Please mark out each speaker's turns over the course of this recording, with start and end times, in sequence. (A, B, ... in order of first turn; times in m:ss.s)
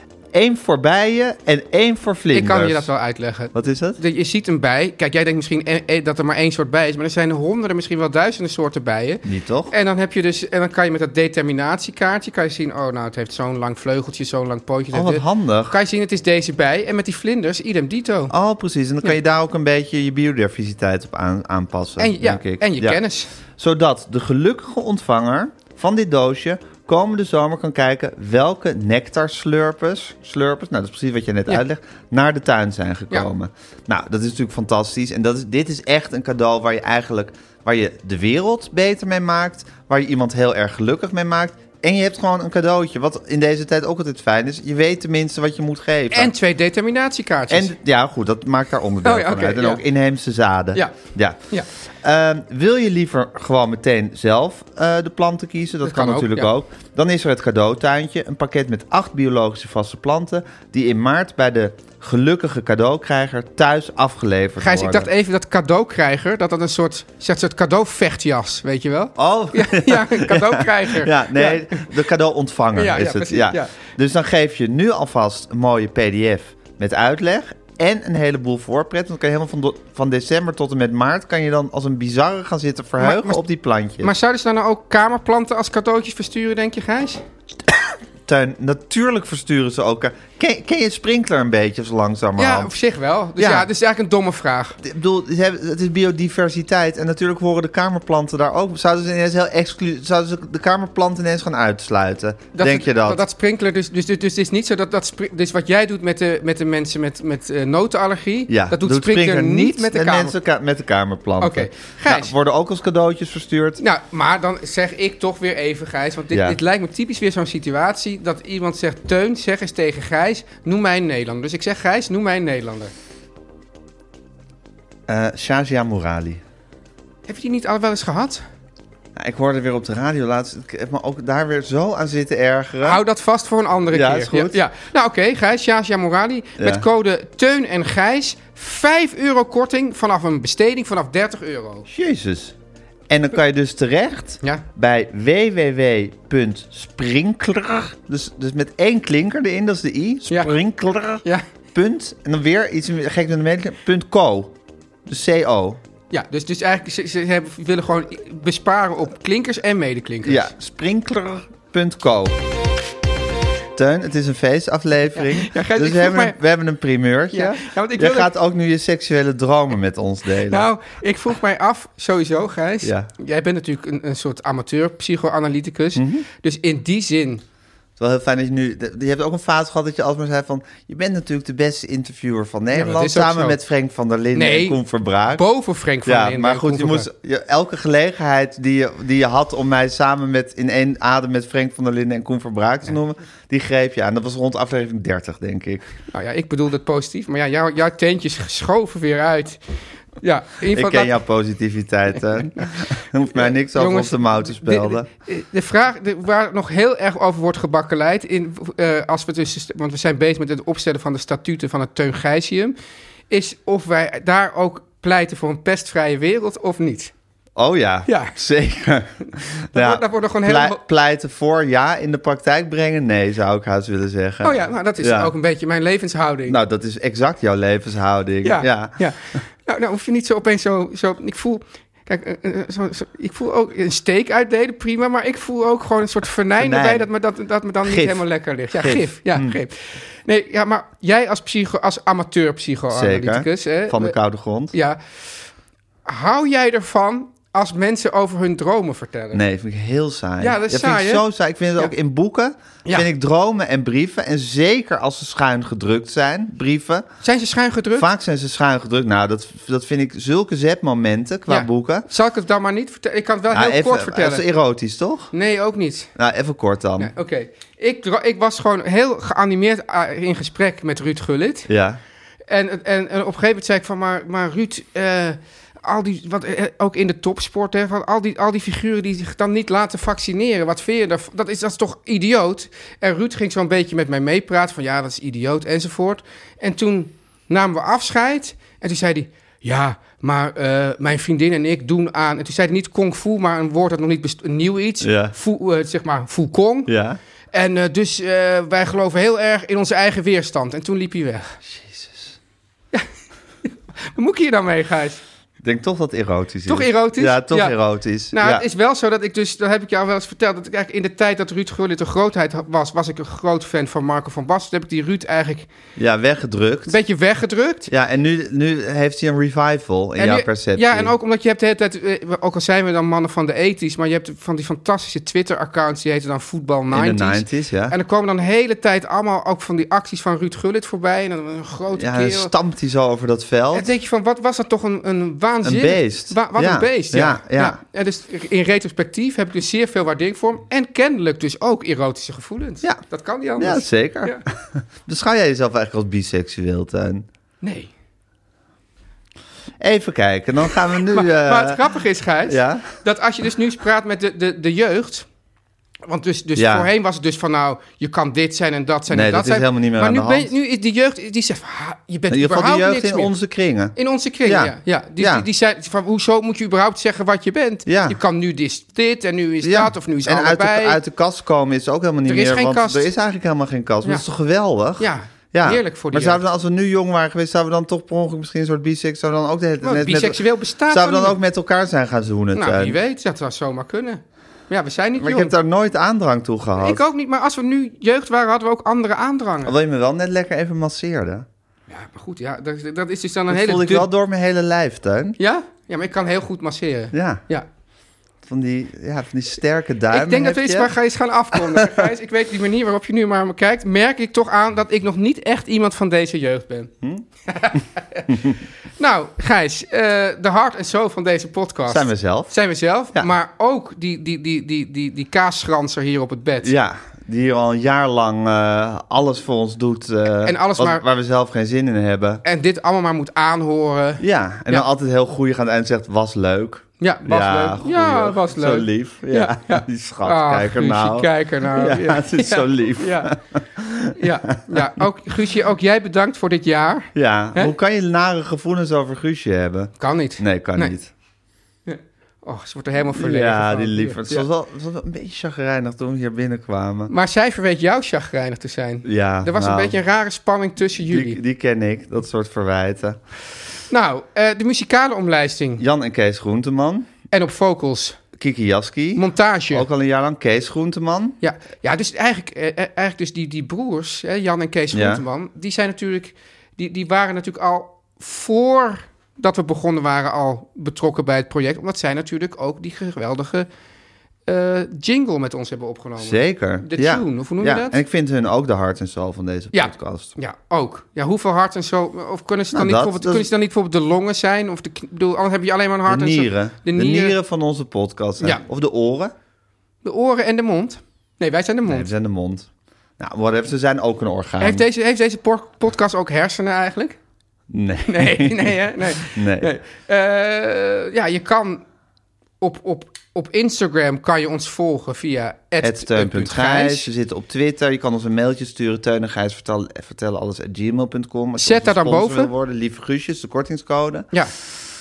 0:00.3-0:02.9 A
0:02.3-0:18.3 B
0:03.5-0:04.0 A
0:09.2-0:09.7 A
0:14.9-0:15.8 A
0:18.3-0:23.0 A
0:22.0-0:23.3 B
0:23.6-0:46.3 A
0:46.1-0:47.7 B
0:47.5-0:51.4 A
0:49.0-0:49.8 B
0:52.0-1:05.1 A
0:55.8-0:56.5 B
1:04.6-1:11.9 B
1:09.2-1:24.1 A
1:12.8-1:13.7 B
1:23.0-1:23.4 B
1:24.0-1:27.2 B
1:28.3-1:32.7 A
1:32.4-1:34.8 B
1:33.4-1:33.7 A
1:34.8-1:43.2 A
1:42.5-1:50.4 B
1:48.5-1:53.8 A
1:51.4-1:52.3 B
1:53.8-2:02.9 B
1:56.3-1:56.6 A
2:05.1-2:06.4 A
2:07.3-2:08.4 B
2:09.2-2:13.0 A
2:12.8-2:21.9 B
2:13.9-2:14.6 A
2:16.6-2:16.9 A
2:21.9-2:22.6 A
2:23.1-2:31.2 A
2:30.3-2:30.6 B
2:31.7-2:34.5 A
2:35.1-2:35.8 A
2:36.1-2:40.5 B
2:40.2-2:42.4 A
2:43.8-2:50.7 A
2:45.2-2:46.4 B
2:47.3-2:48.3 B
2:50.5-2:57.4 B
2:52.8-2:53.1 A
2:56.0-2:56.3 A
2:58.0-3:05.4 A
3:02.7-3:03.6 B
3:04.3-3:04.8 B
3:05.3-3:07.1 B
3:06.0-3:15.9 A
3:16.1-3:19.6 B
3:20.2-3:21.2 B
3:20.7-3:25.1 A
3:23.3-3:32.8 B
3:33.3-3:37.1 B
3:37.6-3:45.3 A
3:38.1-3:38.3 B
3:39.7-3:40.8 B
3:44.4-3:46.6 B
3:46.5-3:49.0 A
3:48.4-4:04.2 B
3:56.6-3:57.1 A
3:57.8-3:59.6 A
4:02.9-4:04.8 A
4:04.7-4:05.0 B
4:06.1-4:09.4 B
4:09.3-4:17.0 A
4:10.4-4:11.2 B
4:17.2-4:18.1 B
4:17.9-4:22.1 A
4:21.5-4:24.4 B
4:23.5-4:25.3 A
4:25.3-4:26.1 B
4:26.2-4:27.1 A
4:27.0-4:31.7 B
4:31.7-4:32.0 A
4:32.5-4:56.9 B
4:55.0-4:55.4 A
4:56.9-4:57.2 A
4:57.5-5:01.6 B
5:01.6-5:02.4 A
5:03.6-5:05.2 B
5:05.6-5:08.6 A
5:06.7-5:07.8 B
5:08.3-5:15.7 B
5:16.0-5:17.0 A
5:16.9-5:17.9 B
5:17.9-5:21.1 A
5:20.2-5:32.5 B
5:26.9-5:28.0 A
5:31.9-5:33.9 A
5:33.7-5:44.4 B
5:35.6-5:37.8 A
5:43.6-5:47.3 A
5:47.6-5:47.9 B
5:49.8-5:51.8 A
5:51.1-5:55.3 B
5:52.5-5:52.9 A
5:56.1-6:03.3 B
5:56.6-5:56.9 A
5:59.1-6:00.5 A
6:02.3-6:05.5 A
6:04.0-6:11.0 B
6:07.9-6:08.2 A
6:09.6-6:23.0 A
6:12.3-6:13.1 B
6:15.0-6:16.4 B
6:19.8-6:21.4 B
6:22.5-6:25.5 B
6:25.2-6:27.0 A
6:26.8-6:29.8 B
6:29.6-6:31.5 A
6:31.9-6:34.1 B
6:33.5-6:35.4 A
6:35.4-6:37.7 B
6:37.1-6:37.4 A
6:38.4-6:40.9 A
6:40.1-6:46.9 B
6:41.5-6:42.1 A
6:47.5-6:48.3 B
6:48.3-6:48.6 A
6:49.0-6:56.7 B
6:51.9-6:52.5 A
6:56.6-7:02.4 A
7:00.4-7:01.0 B
7:02.4-7:04.9 B
7:04.2-7:15.0 A
7:07.0-7:13.3 B
7:14.2-7:17.8 B
7:17.2-7:21.1 A
7:20.0-7:21.0 B
7:21.9-7:24.5 B
7:23.1-7:27.1 A
7:27.1-7:31.4 B
7:29.0-7:30.0 A
7:31.1-7:33.2 A
7:33.9-7:35.8 B
7:35.8-7:37.1 A
7:37.3-7:38.2 B
7:38.4-7:41.4 A
7:39.2-7:39.9 B
7:41.4-7:53.7 B
7:44.9-7:45.2 A
7:54.5-7:58.0 B
7:56.2-8:00.4 A
7:59.7-8:07.4 B
8:02.7-8:03.5 A
8:06.1-8:09.3 A
8:10.0-8:12.1 B
8:11.8-8:14.8 A
8:14.6-8:17.2 B
8:17.7-8:19.7 A
8:18.1-8:21.8 B
8:22.6-8:27.1 B
8:25.8-8:34.3 A
8:31.6-8:32.5 B